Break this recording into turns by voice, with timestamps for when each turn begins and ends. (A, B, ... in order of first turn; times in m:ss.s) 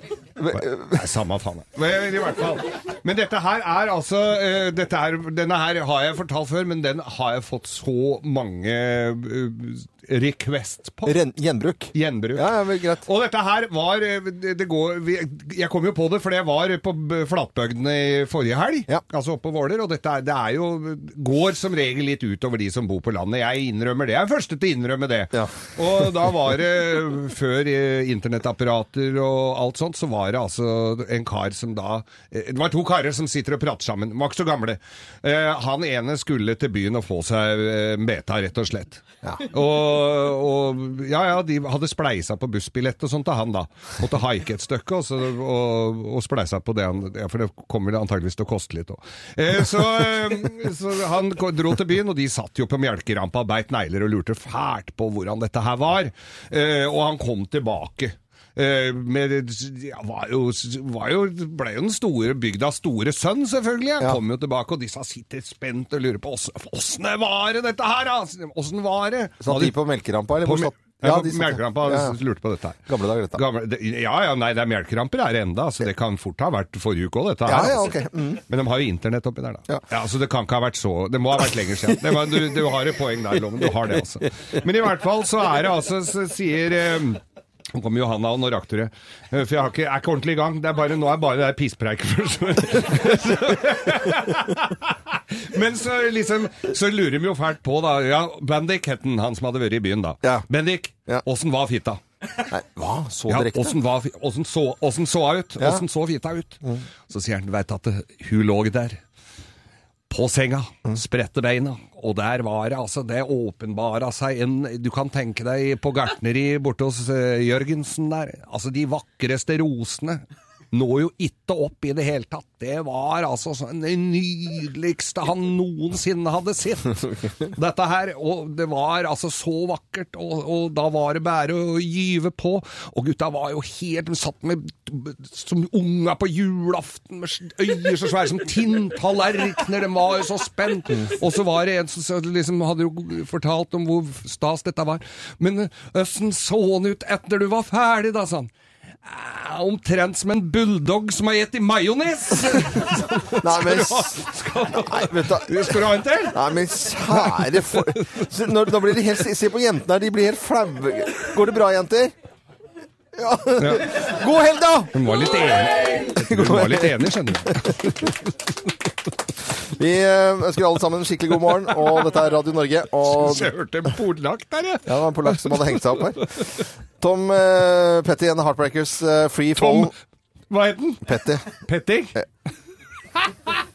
0:00.4-0:01.0 A
0:00.5-0:11.2 B
0:11.0-0:13.0 A
0:11.9-0:12.5 B
0:13.0-1:09.8 B
1:09.4-1:12.2 A
1:10.4-1:18.0 B
1:12.9-1:13.4 A
1:17.5-1:18.4 A
1:18.5-1:27.2 B
1:27.7-1:42.0 B
1:42.5-1:43.8 A
1:43.3-1:49.0 B
1:50.1-2:28.5 B
2:29.0-2:38.2 B
2:33.2-2:34.2 A
2:34.9-2:35.7 A
2:36.3-2:42.1 A
2:43.2-2:45.0 A
2:43.6-2:44.1 B
2:44.9-2:48.2 B
2:46.3-2:47.9 A
2:49.6-2:53.5 A
2:51.5-2:52.0 B
2:53.0-2:56.5 B
2:54.9-2:59.9 A
2:59.6-2:59.9 B
3:00.5-3:02.2 B
3:01.0-3:01.5 A
3:03.1-3:03.6 B